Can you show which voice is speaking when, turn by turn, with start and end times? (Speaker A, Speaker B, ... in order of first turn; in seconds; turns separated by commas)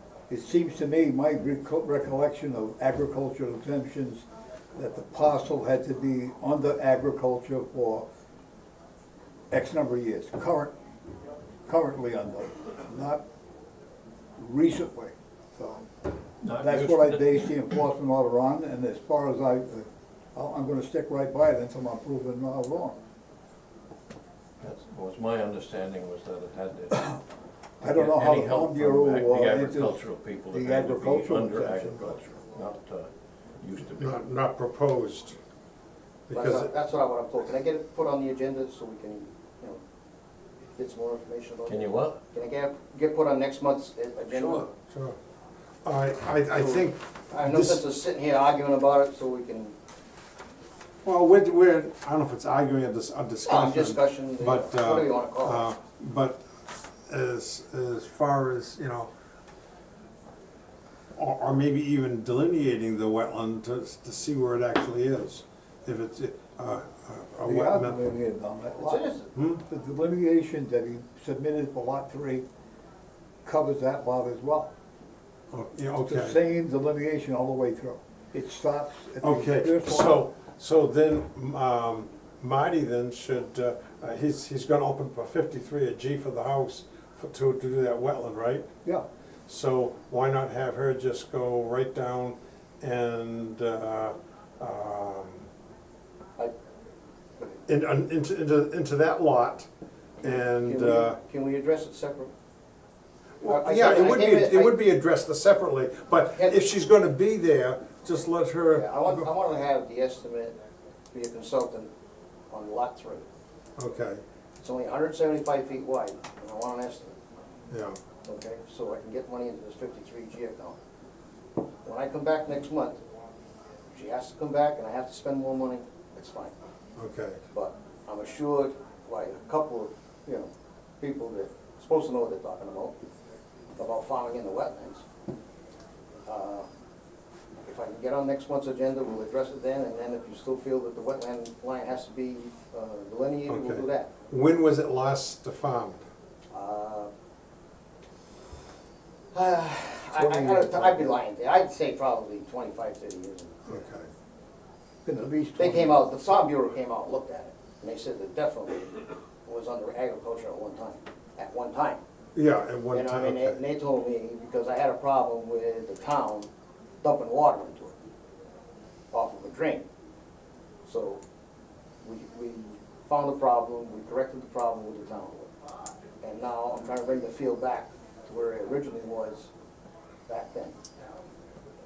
Speaker A: 0.3-8.0, Speaker A: 9.5-10.7, Speaker A: 11.7-13.2, Speaker A: 14.4-15.9, Speaker B: 16.4-17.5, Speaker A: 16.5-23.0, Speaker B: 24.6-26.9, Speaker A: 26.9-27.2, Speaker A: 27.8-32.2, Speaker B: 27.9-34.2, Speaker C: 34.0-35.4, Speaker C: 36.3-36.7, Speaker D: 36.3-39.8, Speaker D: 40.8-44.7, Speaker B: 41.7-42.2, Speaker B: 44.3-44.6, Speaker C: 44.9-45.1, Speaker C: 45.8-47.8, Speaker D: 46.5-49.7, Speaker C: 51.0-56.5, Speaker D: 53.5-55.6, Speaker C: 57.1-59.1, Speaker C: 61.2-68.0, Speaker A: 67.5-69.1, Speaker D: 68.8-69.3, Speaker C: 69.3-69.6, Speaker A: 69.6-72.4, Speaker A: 73.4-74.7, Speaker C: 75.5-76.4, Speaker A: 76.0-80.2, Speaker C: 79.2-88.7, Speaker C: 89.5-95.5, Speaker C: 97.7-99.7, Speaker C: 100.2-101.2, Speaker D: 100.2-102.3, Speaker C: 103.4-109.3, Speaker D: 103.4-104.8, Speaker D: 108.7-110.5, Speaker D: 111.1-111.9, Speaker D: 112.5-113.2, Speaker C: 113.8-114.2, Speaker D: 114.6-117.1, Speaker C: 117.7-118.0, Speaker D: 118.2-120.8, Speaker D: 121.8-123.0, Speaker D: 123.9-126.5, Speaker C: 127.0-127.4, Speaker D: 127.5-132.9, Speaker D: 133.8-135.0, Speaker D: 136.2-136.7, Speaker D: 137.6-144.1, Speaker C: 143.5-146.0, Speaker D: 146.5-147.1, Speaker D: 149.3-153.8, Speaker A: 150.2-151.2, Speaker C: 153.7-154.1, Speaker A: 155.0-156.5, Speaker D: 155.6-162.0, Speaker C: 162.3-163.6, Speaker D: 162.9-166.5, Speaker D: 167.0-167.9, Speaker D: 169.1-169.8, Speaker D: 170.8-171.2, Speaker D: 172.0-175.5, Speaker D: 176.2-179.5, Speaker D: 180.3-180.8